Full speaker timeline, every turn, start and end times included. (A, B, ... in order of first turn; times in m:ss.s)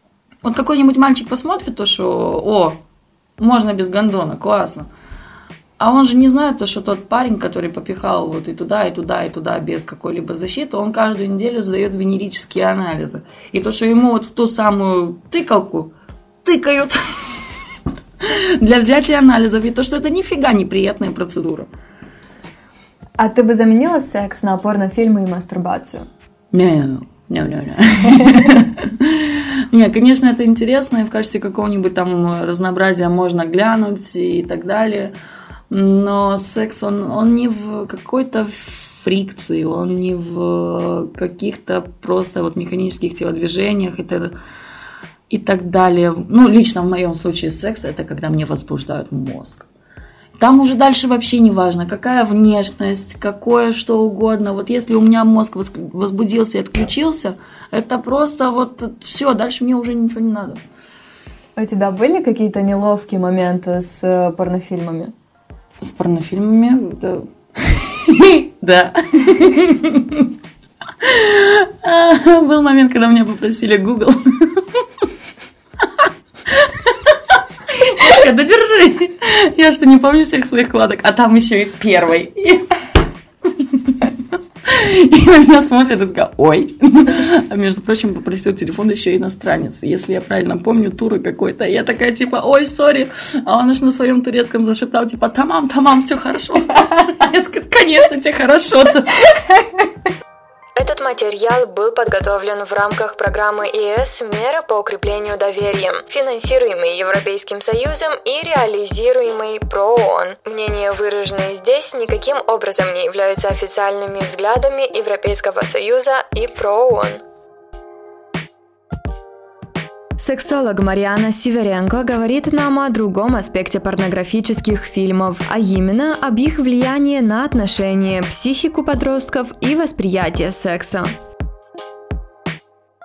0:00.4-0:02.8 A
0:03.4-0:04.9 A
0:05.8-0:15.9 A
0:16.4-0:17.6 A
0:18.2-0:21.7 A
0:23.2-0:26.1 B
0:26.5-0:35.1 A
0:35.7-0:44.3 A
0:45.3-0:49.7 A
0:50.4-1:00.6 A
1:01.6-1:05.1 B
1:05.8-1:10.3 A
1:11.0-1:15.0 A
1:15.8-1:22.7 A
1:23.5-1:39.6 A
1:40.8-1:57.2 B
2:00.2-2:11.1 B